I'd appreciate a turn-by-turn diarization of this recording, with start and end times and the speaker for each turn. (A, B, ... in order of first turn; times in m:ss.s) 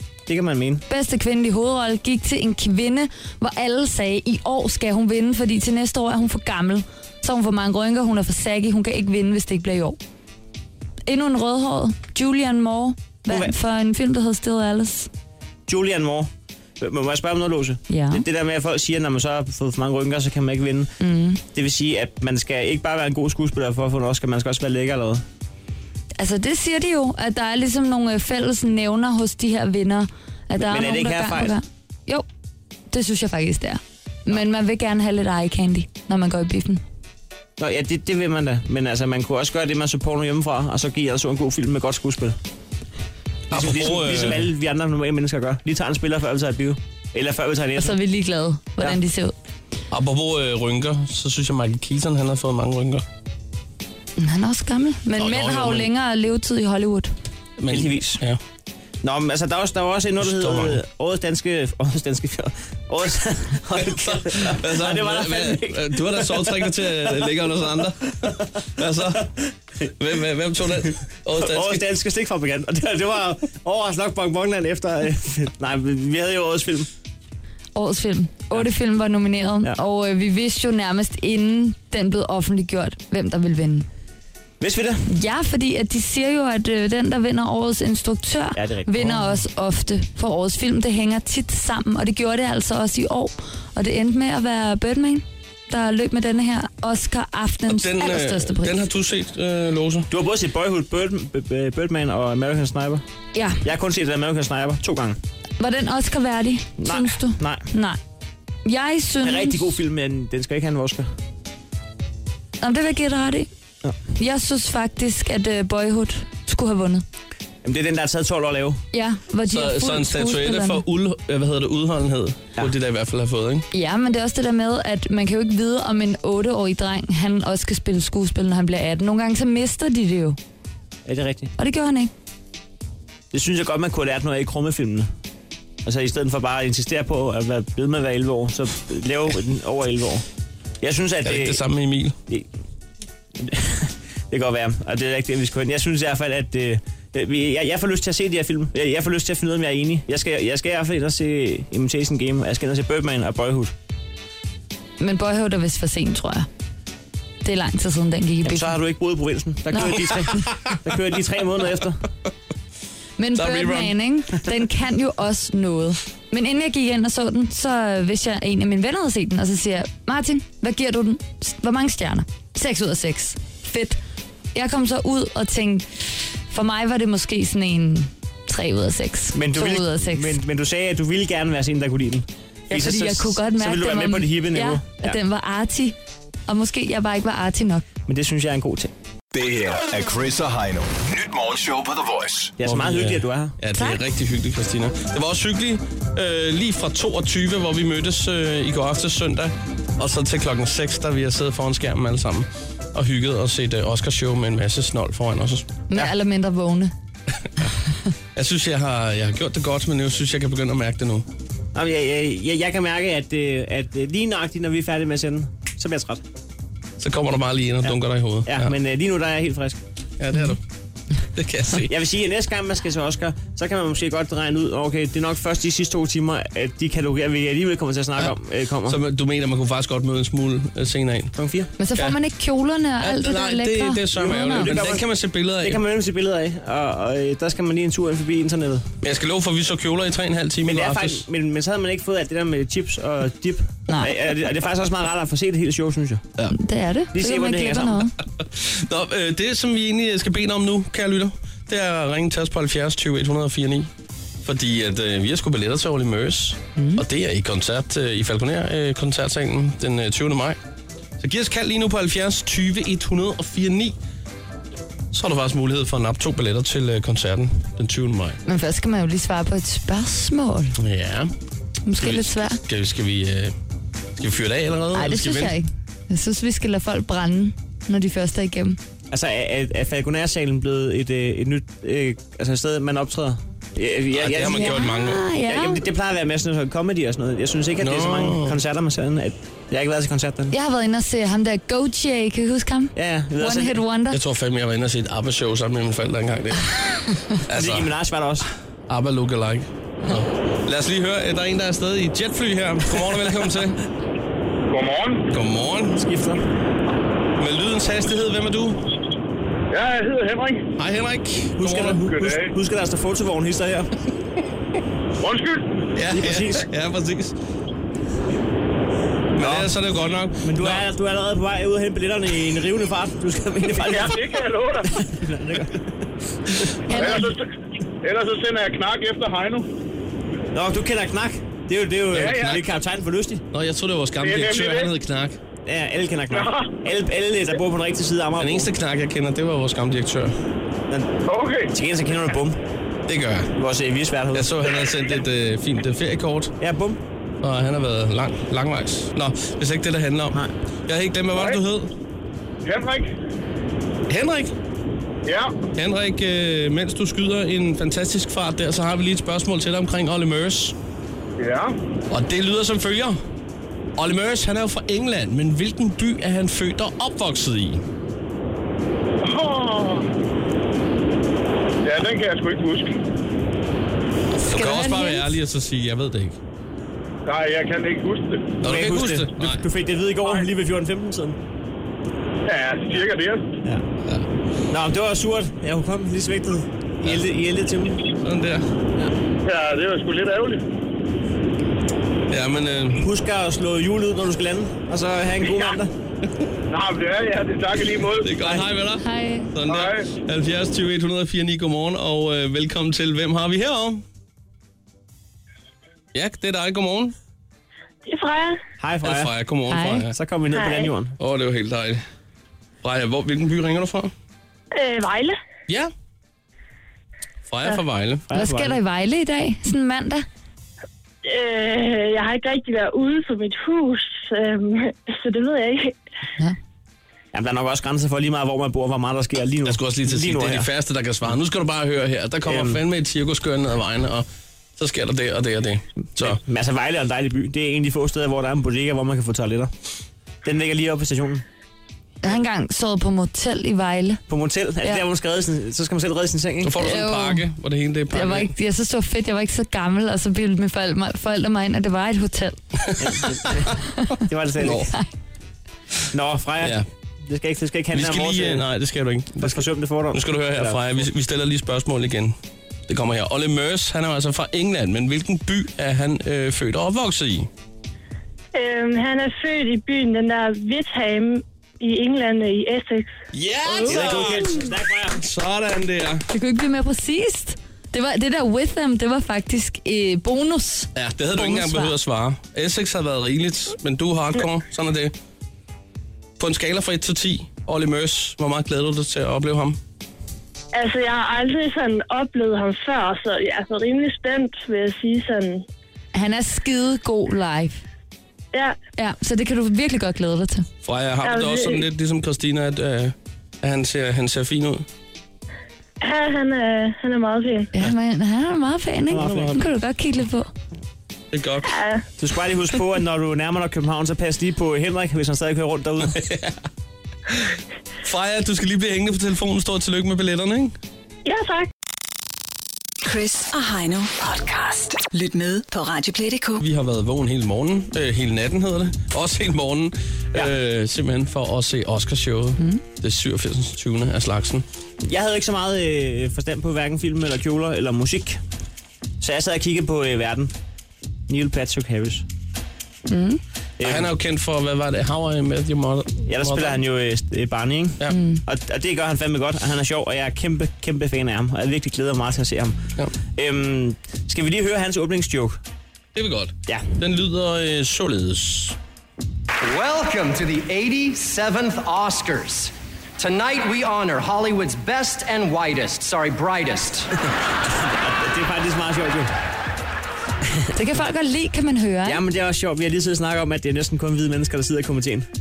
0:00.2-0:00.8 A
0:00.9-0:10.0 B
0:11.1-0:15.1 B
0:13.3-0:13.6 A
0:15.7-0:20.9 A
0:17.9-0:18.2 B
0:21.0-0:21.4 B
0:21.5-0:25.2 A
0:26.2-0:32.2 B
0:30.6-0:31.6 A
0:32.9-0:36.8 B
0:37.6-0:42.4 A
0:43.5-0:44.5 C
0:43.5-0:48.0 A
0:47.8-0:49.3 B
0:49.9-0:53.0 C
0:54.2-0:57.1 B
0:55.2-0:55.9 C
0:57.6-0:58.4 C
0:57.7-0:58.2 A
0:59.0-1:07.3 A
1:00.2-1:00.8 C
1:03.8-1:09.3 C
1:10.0-1:11.9 C
1:11.3-1:16.9 A
1:17.7-1:23.9 B
1:24.6-1:25.0 A
1:25.1-1:38.8 B
1:28.6-1:29.3 A
1:37.7-1:40.1 C
1:40.1-1:43.0 A
1:43.3-1:43.6 B
1:43.6-1:45.2 A
1:45.6-1:48.0 B
1:46.8-1:47.6 A
1:48.6-1:49.8 B
1:49.2-1:51.1 A
1:52.6-1:53.5 B
1:54.2-1:57.0 B
1:57.6-1:58.8 A
1:58.9-2:00.8 B
1:59.5-2:03.7 C
2:03.7-2:10.4 B
2:11.0-2:11.5 A
2:11.6-2:12.1 B
2:13.3-2:15.1 A
2:15.8-2:20.2 A
2:20.8-2:21.6 A
2:21.2-2:22.2 C
2:23.4-2:33.7 A
2:35.0-2:36.5 B
2:37.4-2:38.8 B
2:38.4-2:42.0 A
2:39.7-2:40.4 B
2:43.2-2:54.0 B
2:43.4-2:43.9 C
2:54.5-2:55.9 B
2:56.5-3:00.4 B
2:59.3-3:05.2 A
3:02.7-3:05.9 B
3:06.5-3:07.8 B
3:08.1-3:08.9 A
3:09.3-3:12.5 D
3:12.6-3:13.5 A
3:12.6-3:25.7 C
3:25.9-3:26.9 B
3:28.3-3:31.2 C
3:31.7-3:36.2 A
3:37.0-3:38.7 C
3:37.8-3:39.8 A
3:40.2-3:40.6 C
3:41.3-3:41.9 C
3:41.9-3:49.0 A
3:48.8-3:51.3 C
3:51.4-3:51.7 A
3:51.8-3:54.7 B
3:53.0-3:55.8 C
3:54.2-3:55.1 A
3:55.6-3:58.9 A
3:59.0-4:01.2 C
4:00.6-4:06.3 A
4:03.9-4:04.1 B
4:06.5-4:08.1 B
4:07.1-4:08.1 A
4:08.4-4:13.9 C
4:14.4-4:20.6 C
4:16.8-4:17.0 B
4:21.2-4:24.0 C
4:25.1-4:28.4 C
4:28.4-4:30.7 B
4:30.8-4:31.3 C
4:31.8-4:32.6 B
4:32.0-4:33.5 C
4:34.2-4:35.5 C
4:34.9-4:38.8 B
4:39.1-4:44.8 A
4:44.1-4:45.2 C
4:44.5-4:45.8 B
4:45.4-4:50.5 A
4:47.8-4:48.6 C
4:50.5-4:54.2 B
4:52.9-4:53.8 A
4:54.1-4:57.9 C
4:57.5-4:58.5 A
4:58.9-5:03.8 C
5:04.7-5:05.2 E
5:05.3-5:06.0 C
5:06.0-5:06.4 A
5:07.4-5:08.8 C
5:09.7-5:10.7 E
5:10.8-5:12.0 C
5:11.6-5:13.9 A
5:12.0-5:12.5 E
5:15.2-5:15.7 E
5:16.0-5:17.3 C
5:16.1-5:16.7 A
5:19.4-5:20.8 C
5:19.4-5:19.7 A
5:20.4-5:24.2 A
5:23.7-5:25.0 E
5:25.0-5:25.9 A
5:26.9-5:27.3 B
5:26.9-5:27.5 E
5:28.0-5:29.7 E
5:30.5-5:33.4 A
5:32.1-5:32.7 C
5:32.2-5:32.5 E
5:33.5-5:35.4 C
5:34.2-5:34.9 E
5:35.6-5:38.7 A
5:36.3-5:36.7 E
5:38.4-5:40.3 C
5:41.2-5:41.7 E
5:41.7-5:42.6 A
5:43.1-5:43.5 C
5:43.5-5:44.6 A
5:44.3-5:46.5 C
5:46.6-5:47.0 A
5:47.4-5:51.9 C
5:51.3-5:51.6 E
5:52.6-5:53.1 E
5:54.1-5:54.5 C
5:55.2-5:55.5 E
5:55.7-6:00.7 C
6:01.4-6:01.8 E
6:02.1-6:03.2 C
6:04.0-6:07.8 C
6:09.2-6:10.1 E
6:11.8-6:12.9 E
6:14.3-6:16.4 C
6:14.5-6:15.3 B
6:17.2-6:18.6 E
6:18.6-6:19.6 C
6:18.6-6:21.4 A
6:22.4-6:23.5 E
6:24.7-6:28.0 A
6:28.2-6:28.6 C
6:29.4-6:30.6 E
6:32.3-6:33.0 C
6:33.0-6:35.9 A
6:36.7-6:38.6 E
6:38.1-6:44.0 C
6:39.0-6:39.5 B
6:39.7-6:40.0 E
6:46.1-6:47.1 C
6:48.0-6:48.6 F
6:48.8-6:49.3 A
6:49.0-6:50.1 C
6:49.7-6:50.1 B
6:50.1-6:51.2 A
6:50.5-6:50.9 F
6:51.2-6:52.0 C
6:52.8-6:54.1 C
6:54.7-6:55.4 F
6:57.5-6:58.2 C
6:58.3-6:58.8 A
6:58.3-7:00.2 B
7:01.2-7:06.0 F
7:07.3-7:10.7 A
7:09.6-7:14.2 C
7:12.4-7:12.8 A
7:14.8-7:16.4 C
7:16.2-7:19.7 A
7:20.4-7:21.4 A
7:22.2-7:24.2 B
7:24.3-7:26.8 A
7:26.6-7:28.5 C
7:26.8-7:27.4 B
7:28.1-7:32.6 B
7:32.9-7:33.7 C
7:33.0-7:34.9 A
7:34.6-7:34.9 C
7:36.1-7:38.6 A
7:37.9-7:42.3 C
7:39.4-7:40.8 A
7:42.9-7:47.5 C
7:48.5-7:53.1 F
7:53.3-7:56.2 C
7:53.8-7:55.2 A
7:56.3-8:01.9 B
8:01.0-8:05.1 C
8:06.4-8:09.8 C
8:10.7-8:15.6 F
8:16.1-8:17.8 B
8:19.0-8:20.6 B
8:20.8-8:24.8 C
8:21.2-8:21.8 F
8:26.0-8:27.7 F
8:27.7-8:30.5 B
8:29.1-8:29.6 A
8:29.2-8:29.6 C
8:31.3-8:31.7 C
8:31.7-8:32.0 F
8:32.2-8:36.3 A
8:36.2-8:36.5 C
8:38.0-8:40.8 C
8:41.2-8:41.7 F
8:43.0-8:46.6 G
8:46.6-8:54.6 C
8:55.0-8:58.4 A
8:59.2-9:00.5 A
9:01.3-9:02.2 A
9:03.1-9:03.4 B
9:03.8-9:04.1 A
9:03.8-9:06.8 C
9:06.3-9:12.8 A
9:08.1-9:08.4 B
9:13.3-9:15.6 A
9:16.1-9:18.8 C
9:19.6-9:27.1 H
9:27.8-9:29.3 A
9:30.7-9:32.2 B
9:32.0-9:35.3 A